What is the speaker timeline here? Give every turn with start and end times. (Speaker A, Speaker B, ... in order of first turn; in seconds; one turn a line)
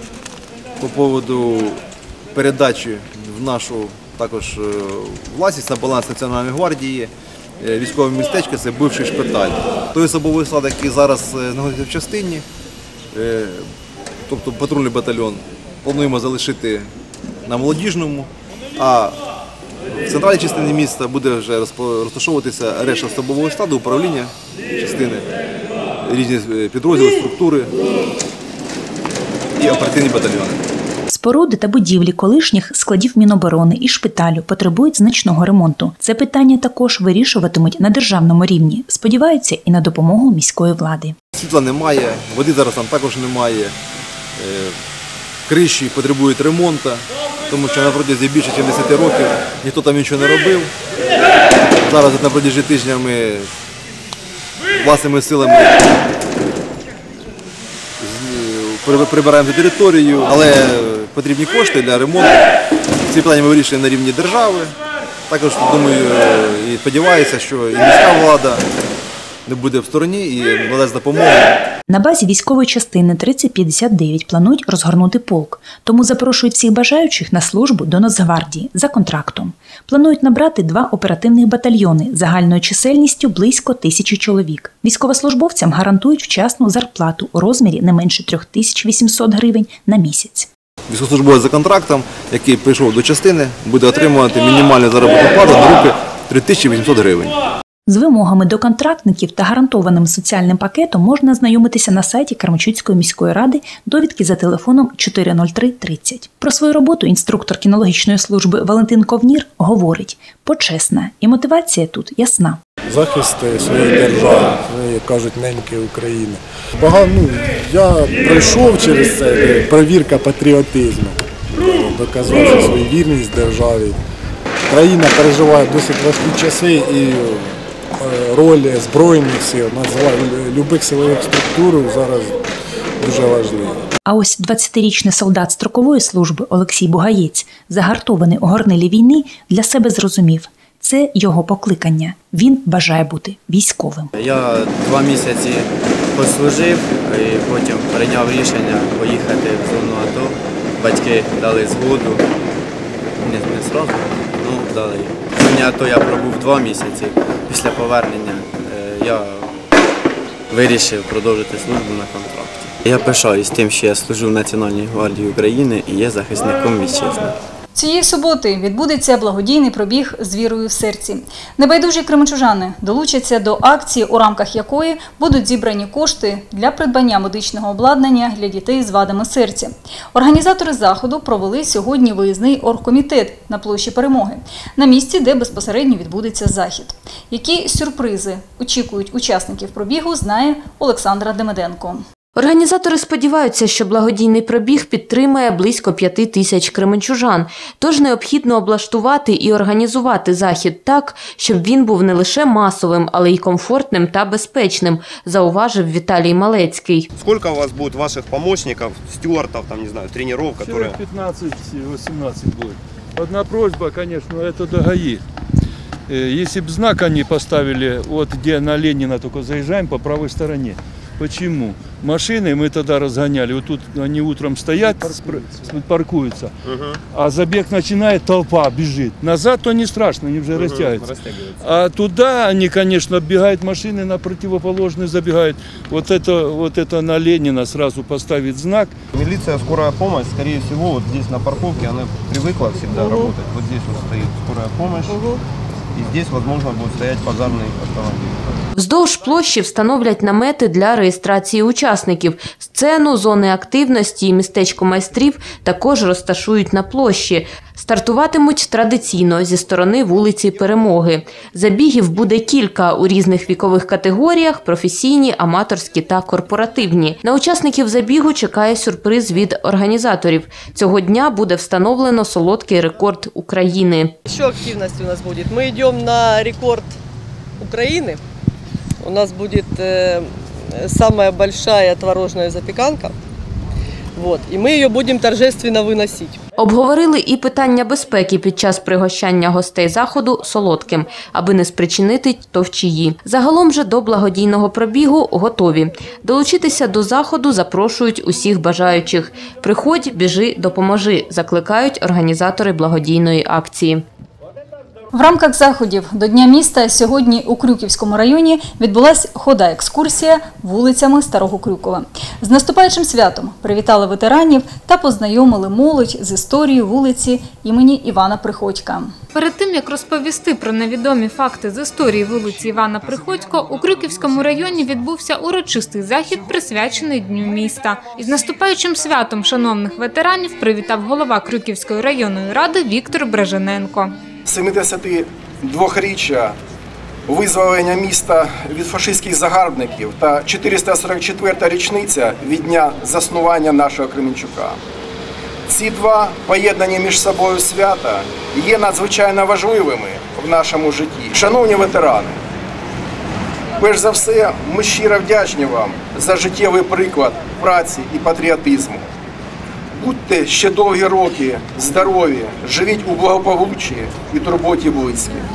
Speaker A: 0.8-1.8
Speaker A: 2.3-12.4
Speaker A: 13.1-13.6
Speaker A: 14.3-16.9
Speaker A: 17.5-19.1
Speaker A: 20.0-25.2
Speaker A: 26.0-27.7
Speaker A: 29.6-30.6
Speaker B: 31.1-41.2
Speaker A: 41.4-43.7
Speaker A: 44.4-44.7
Speaker A: 45.5-50.7
Speaker A: 51.9-53.5
Speaker A: 54.8-55.9
Speaker A: 58.0-62.3
Speaker A: 63.1-64.7
Speaker A: 65.3-68.6
Speaker A: 69.5-71.5
Speaker B: 71.9-90.5
Speaker A: 90.9-97.3
Speaker B: 97.9-112.6
Speaker C: 112.9-124.0
Speaker C: 124.7-132.4
Speaker C: 133.0-133.8
Speaker B: 134.1-144.1
Speaker D: 144.2-152.2
Speaker D: 153.2-159.5
Speaker D: 160.5-167.3
Speaker E: 167.7-192.0
Speaker F: 192.4-207.1
Speaker G: 207.2-210.9
Speaker H: 210.6-215.2
Speaker H: 216.1-226.5
Speaker H: 227.1-238.9
Speaker G: 230.6-231.0
Speaker G: 239.2-245.2
Speaker I: 243.0-243.3
Speaker G: 246.1-247.7
Speaker F: 248.8-274.2
Speaker I: 274.3-276.9
Speaker I: 277.6-278.2
Speaker I: 279.0-283.1
Speaker I: 284.2-286.4
Speaker F: 286.6-304.1
Speaker E: 305.1-319.1
Speaker J: 319.3-334.1
Speaker K: 334.5-336.6
Speaker K: 337.3-344.8
Speaker K: 345.7-352.4
Speaker K: 353.8-359.1
Speaker K: 360.0-365.4